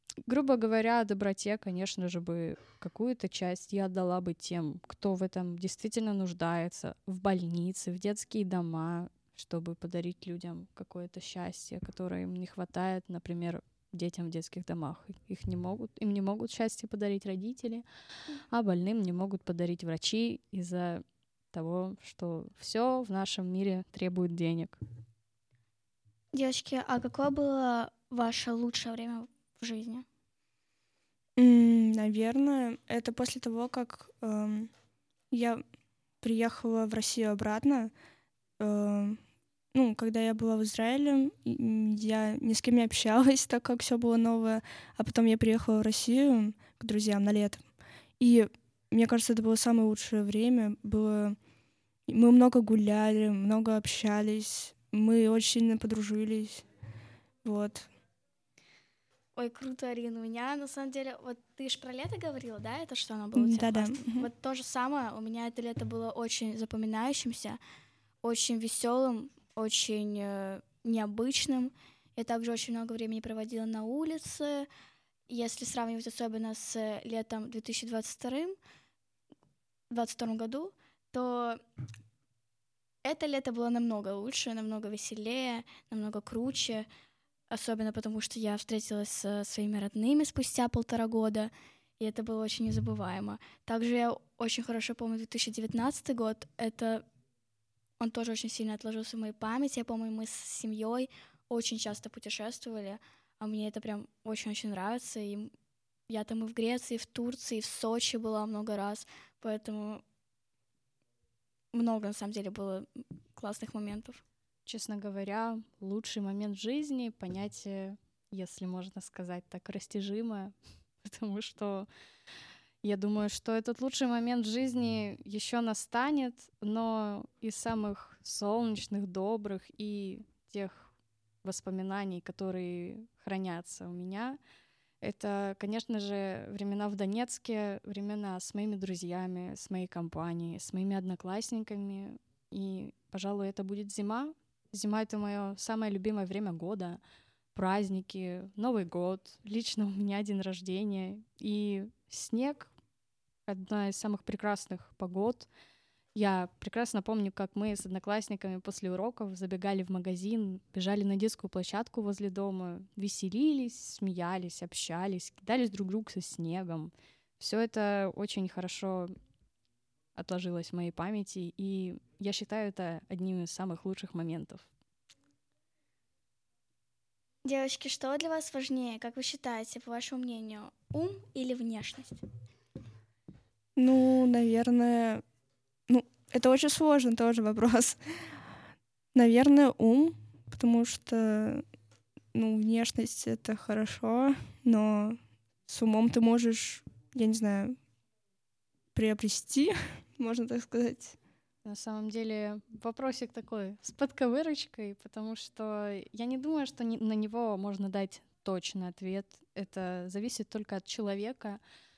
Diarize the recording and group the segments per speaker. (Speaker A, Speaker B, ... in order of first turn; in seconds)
Speaker A: 0.2-17.8, 18.5-24.8, 114.7-121.9, 122.8-130.9, 131.4-134.4, 135.0-147.0, 147.5-152.7, 153.5-155.5, 156.1-169.1, 170.2-174.7, 201.6-211.6
Speaker B: 26.3-30.0, 59.3-67.6, 68.2-74.7, 75.3-78.5, 79.9-81.6, 83.0-86.9, 87.5-97.0, 98.0-105.5, 106.1-110.0, 111.7-114.2, 177.4-182.2
Speaker C: 31.4-34.7, 35.3-35.6, 36.2-37.9, 38.6-39.2, 39.7-47.6, 48.2-51.4, 52.1-56.6, 57.4-57.9, 63.3-64.3, 183.8-185.2, 185.9-188.0, 189.1-191.6, 192.3-197.8, 198.9-201.2